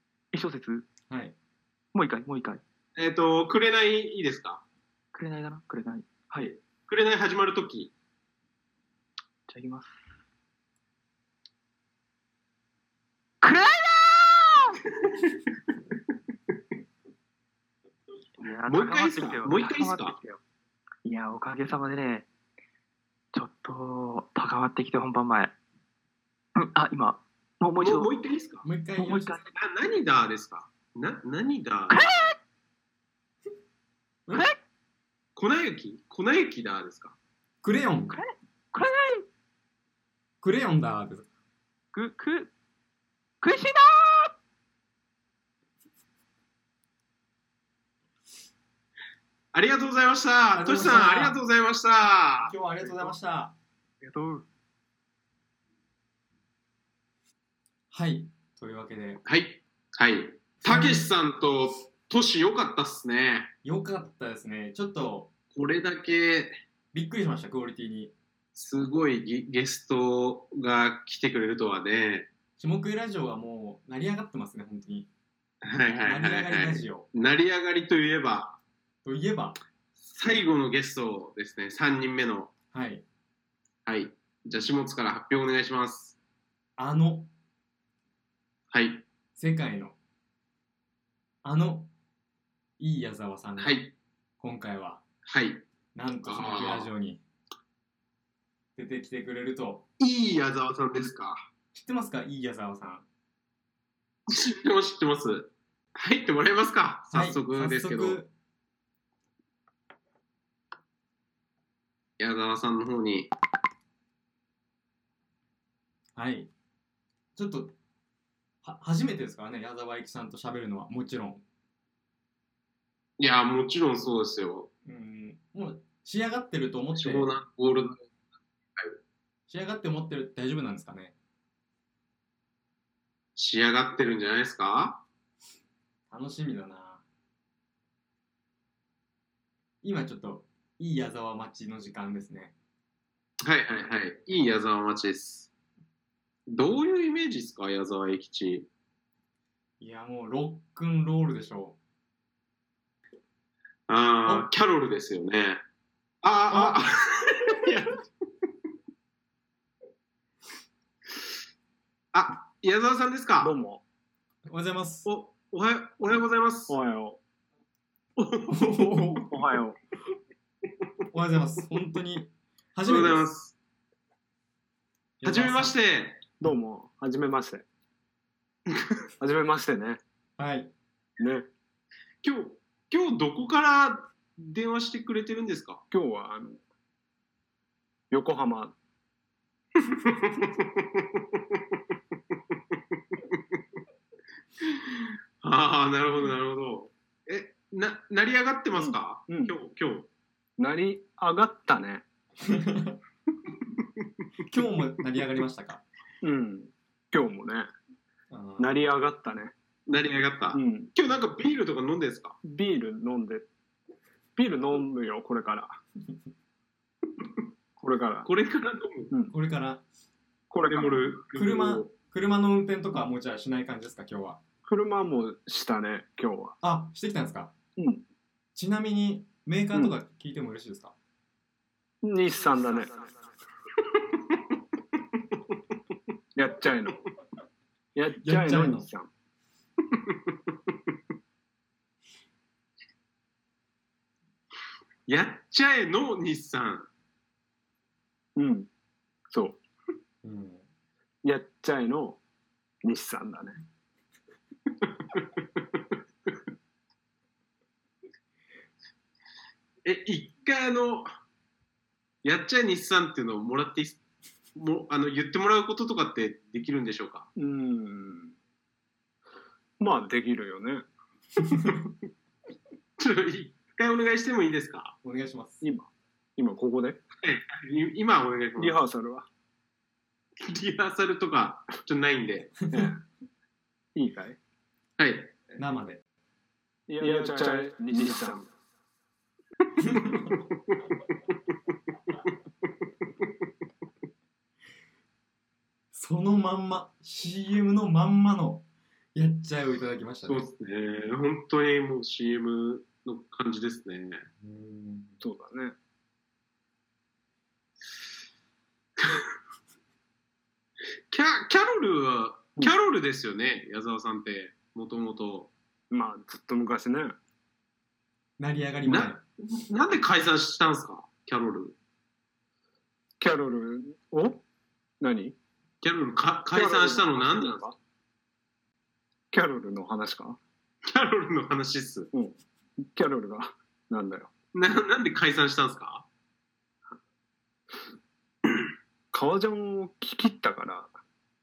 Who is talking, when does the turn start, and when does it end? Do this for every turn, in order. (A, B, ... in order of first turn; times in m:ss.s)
0:00.3-0:00.9 A
0:01.1-0:01.4 B
0:01.9-0:02.6 A
0:03.0-0:04.6 C
0:05.1-0:06.6 A
0:06.9-0:07.9 C
0:09.5-0:10.0 A
0:13.4-0:14.8 A
0:18.4-0:20.4 A
0:18.7-0:20.2 C
0:21.0-0:22.3 A
0:23.3-0:25.5 A
0:26.6-0:28.1 A
0:27.8-0:28.7 C
0:28.6-0:29.3 B
0:29.0-0:29.5 A
0:29.6-0:32.1 C
0:31.9-0:32.4 A
0:34.3-0:34.6 A
0:35.4-0:37.2 C
0:37.6-0:38.2 B
0:38.1-0:39.2 A
0:40.4-0:41.3 B
0:41.9-0:42.5 A
0:43.4-0:44.3 A
0:49.5-0:52.5 C
0:50.6-0:51.4 B
0:52.4-0:53.6 B
0:54.0-0:54.5 A
0:57.9-0:59.2 B
0:59.3-1:03.5 C
1:00.6-1:01.1 B
1:03.6-1:05.3 B
1:05.5-1:06.6 C
1:06.9-1:08.1 B
1:08.6-1:12.3 C
1:12.6-1:15.1 B
1:15.6-1:18.6 C
1:16.0-1:17.1 B
1:19.0-1:19.6 B
1:20.0-1:22.5 C
1:22.7-1:23.0 B
1:23.9-1:26.2 C
1:26.8-1:27.3 B
1:28.7-1:29.0 C
1:29.4-1:30.0 B
1:31.4-1:31.9 B
1:32.8-1:33.8 B
1:33.6-1:33.9 C
1:34.4-1:35.0 B
1:35.2-1:35.6 C
1:36.0-1:37.2 B
1:36.2-1:36.9 C
1:38.8-1:39.9 B
1:40.0-1:41.4 C
1:41.7-1:43.1 B
1:44.3-1:48.2 C
1:47.1-1:48.3 B
1:52.2-1:53.3 C
1:56.2-1:56.5 B
1:57.4-1:57.7 B
1:58.6-2:01.4 B
2:03.2-2:04.7 C
2:04.9-2:07.4 B
2:07.0-2:08.0 C
2:09.5-2:11.2 B
2:13.4-2:15.0 C
2:16.1-2:17.0 B
2:19.8-2:22.5 B
2:23.4-2:25.5 C
2:26.5-2:28.7 C
2:29.8-2:31.8 B
2:33.9-2:35.6 C
2:36.2-2:37.9 C
2:36.5-2:36.9 B
2:42.1-2:43.5 C
2:43.4-2:43.8 D
2:44.5-2:45.1 B
2:45.1-2:46.8 C
2:46.7-2:47.2 D
2:48.2-2:49.2 C
2:48.5-2:49.3 B
2:49.3-2:49.8 D
2:51.1-2:53.3 B
2:52.9-2:53.6 C
2:55.2-2:55.8 B
2:55.2-2:56.2 C
2:56.4-2:57.6 D
2:59.2-3:00.0 D
3:00.4-3:00.7 B
3:01.2-3:01.5 D
3:02.2-3:05.8 C
3:05.9-3:06.6 D
3:08.1-3:08.8 D
3:09.9-3:11.6 C
3:14.6-3:20.1 C
3:18.8-3:19.6 D
3:20.6-3:22.0 D
3:22.5-3:23.0 B
3:24.5-3:25.8 B
3:26.2-3:27.7 D
3:28.3-3:28.8 B
3:28.6-3:29.5 D
3:29.9-3:32.4 C
3:30.5-3:30.9 D
3:32.4-3:33.5 D
3:34.4-3:35.8 D
3:37.8-3:38.3 D
3:38.3-3:39.1 C
3:39.3-3:39.8 B
3:40.5-3:41.2 D
3:40.6-3:41.9 C
3:41.3-3:44.4 B
3:44.7-3:46.6 D
3:46.6-3:47.5 B
3:47.8-3:48.0 D
3:48.6-3:50.9 B
3:52.0-3:53.0 D
3:56.4-3:57.0 D
3:58.0-3:59.1 D
3:58.2-3:58.9 B
4:05.1-4:06.9 C
4:08.4-4:08.7 D
4:09.3-4:09.6 D
4:10.2-4:10.6 B
4:11.2-4:12.2 D
4:12.8-4:13.6 D
4:15.1-4:15.6 C
4:19.8-4:21.1 C
4:22.2-4:24.0 C
4:24.6-4:27.3 C
4:27.4-4:28.3 D
4:29.8-4:30.8 D
4:31.5-4:31.8 B
4:33.0-4:35.0 C
4:35.0-4:35.6 B
4:35.6-4:37.0 D
4:37.2-4:38.8 C
4:38.6-4:39.3 D
4:40.4-4:42.5 C
4:42.6-4:42.9 B
4:42.7-4:43.0 D
4:44.0-4:44.4 D
4:45.0-4:45.4 C
4:45.6-4:46.0 B
4:46.9-4:48.5 D
4:49.8-4:50.3 B
4:50.3-4:50.8 C
4:55.9-5:00.5 B
5:00.3-5:04.2 C
5:04.4-5:05.2 B
5:05.2-5:05.8 D
5:11.1-5:15.5 C
5:15.9-5:17.2 D
5:18.4-5:19.2 B
5:18.9-5:21.8 C
5:23.2-5:24.4 D
5:25.0-5:25.4 D
5:25.8-5:27.7 C
5:26.5-5:27.8 D
5:29.3-5:30.4 D
5:30.9-5:32.1 C
5:32.1-5:34.3 D
5:34.5-5:36.1 C
5:39.1-5:40.9 D